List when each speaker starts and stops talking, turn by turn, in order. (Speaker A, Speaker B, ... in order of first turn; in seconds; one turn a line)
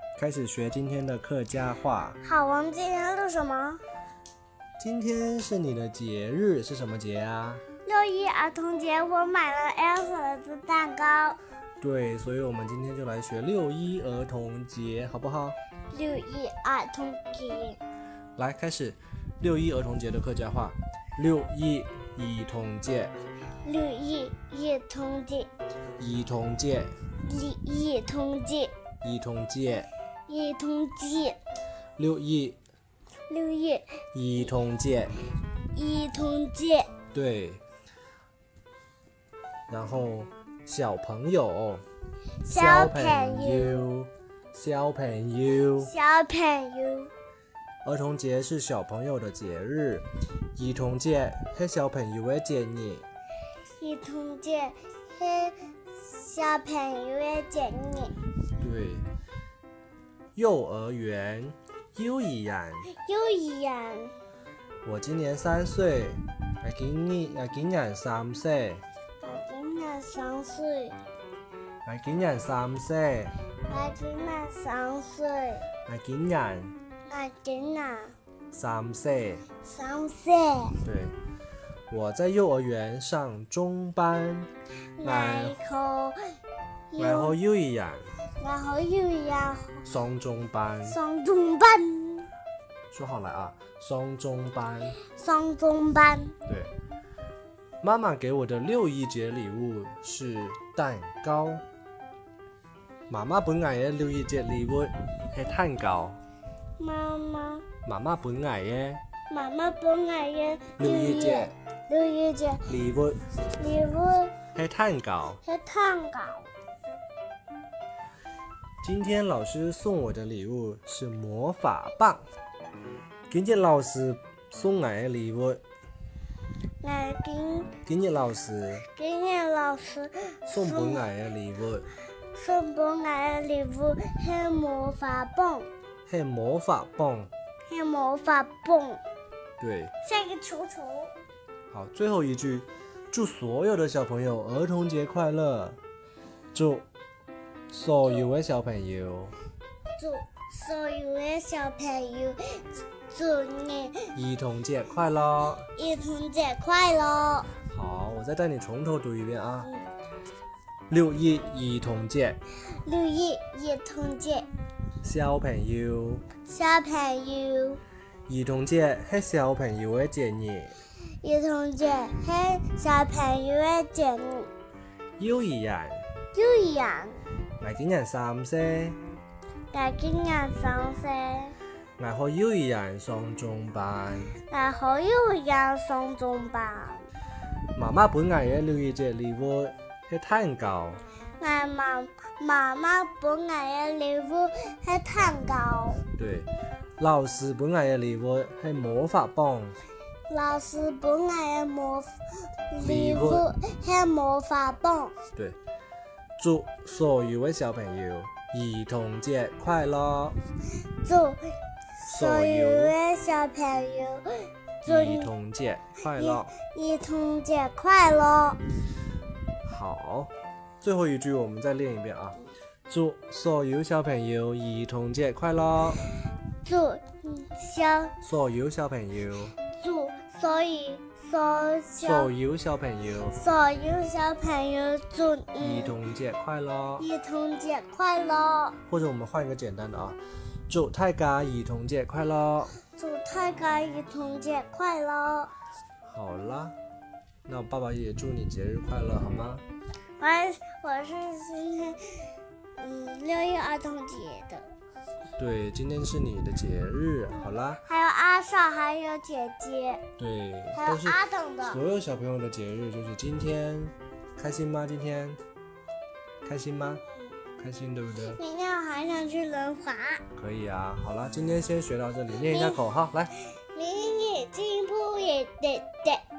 Speaker A: 0.2-2.2
Speaker B: 2.2-3.8
Speaker A: 4.8-7.6
Speaker B: 7.8-11.4
Speaker A: 11.8-15.6
Speaker B: 15.9-17.8
Speaker A: 18.4-23.1
Speaker B: 23.6-25.5
Speaker A: 26.0-26.9
Speaker B: 27.2-28.7
Speaker A: 29.0-29.9
Speaker B: 30.3-31.4
Speaker A: 32.0-32.6
Speaker B: 33.3-34.0
Speaker A: 34.1-35.2
Speaker B: 35.7-36.9
Speaker A: 37.1-37.6
Speaker A: 39.7-41.8
Speaker B: 42.4-43.9
Speaker A: 42.5-45.9
Speaker B: 45.8-47.1
Speaker A: 47.8-53.0
Speaker B: 53.8-58.1
Speaker A: 58.6-59.0
Speaker A: 60.4-62.9
Speaker B: 62.9-64.1
Speaker A: 64.8-68.8
Speaker B: 69.2-71.0
Speaker A: 71.8-73.3
Speaker B: 73.7-75.7
Speaker A: 75.9-76.7
Speaker B: 77.1-78.2
Speaker A: 78.5-79.4
Speaker B: 79.6-80.8
Speaker A: 80.8-81.2
Speaker A: 81.9-84.5
Speaker B: 85.0-86.2
Speaker A: 85.0-85.6
Speaker B: 86.9-87.3
Speaker A: 87.0-88.1
Speaker B: 88.4-89.8
Speaker A: 89.8-91.0
Speaker B: 90.8-92.3
Speaker A: 92.9-95.0
Speaker B: 95.0-96.3
Speaker A: 97.8-101.6
Speaker A: 103.1-106.2
Speaker B: 106.8-107.7
Speaker A: 107.8-109.0
Speaker B: 109.3-112.7
Speaker A: 110.8-111.5
Speaker A: 112.7-113.2
Speaker B: 113.5-114.3
Speaker A: 114.5-115.4
Speaker B: 115.4-116.5
Speaker A: 118.8-122.2
Speaker A: 123.3-125.6
Speaker B: 126.8-127.7
Speaker A: 127.9-128.9
Speaker B: 128.9-131.1
Speaker A: 130.5-131.9
Speaker B: 132.3-135.7
Speaker A: 136.1-137.3
Speaker B: 137.7-139.0
Speaker A: 139.6-139.9
Speaker B: 140.0-141.1
Speaker A: 141.7-145.8
Speaker A: 146.5-146.9
Speaker A: 147.7-149.4
Speaker B: 150.0-154.1
Speaker A: 154.1-155.7
Speaker B: 155.8-157.5
Speaker A: 157.7-159.7
Speaker A: 160.9-162.4
Speaker B: 162.8-164.5
Speaker A: 165.0-166.2
Speaker B: 166.4-167.8
Speaker A: 168.3-170.8
Speaker B: 171.2-174.5
Speaker A: 175.2-176.0
Speaker B: 176.3-177.2
Speaker A: 177.6-179.0
Speaker B: 179.7-181.6
Speaker A: 182.0-184.3
Speaker B: 184.4-187.1
Speaker A: 187.7-191.0
Speaker B: 191.4-196.0
Speaker A: 196.1-199.8
Speaker B: 200.3-202.2
Speaker B: 202.7-205.2
Speaker A: 202.8-203.5
Speaker A: 206.4-210.4
Speaker B: 211.0-215.3
Speaker A: 212.1-213.0
Speaker A: 214.8-216.5
Speaker B: 216.2-218.6
Speaker A: 219.7-226.1
Speaker B: 226.6-228.1
Speaker A: 228.2-229.6
Speaker B: 229.7-232.3
Speaker A: 232.0-233.4
Speaker B: 233.3-236.0
Speaker A: 235.6-237.1
Speaker B: 237.0-238.8
Speaker A: 238.9-240.2
Speaker A: 240.7-242.8
Speaker B: 242.9-245.5
Speaker A: 246.0-246.8
Speaker A: 247.5-249.6
Speaker B: 250.2-254.7
Speaker A: 255.4-257.8
Speaker B: 257.3-260.0
Speaker A: 260.2-265.4
Speaker B: 260.8-261.8
Speaker A: 266.4-267.0
Speaker A: 267.6-268.4
Speaker B: 268.2-270.2
Speaker A: 270.4-273.3
Speaker B: 272.5-272.8
Speaker B: 273.7-276.2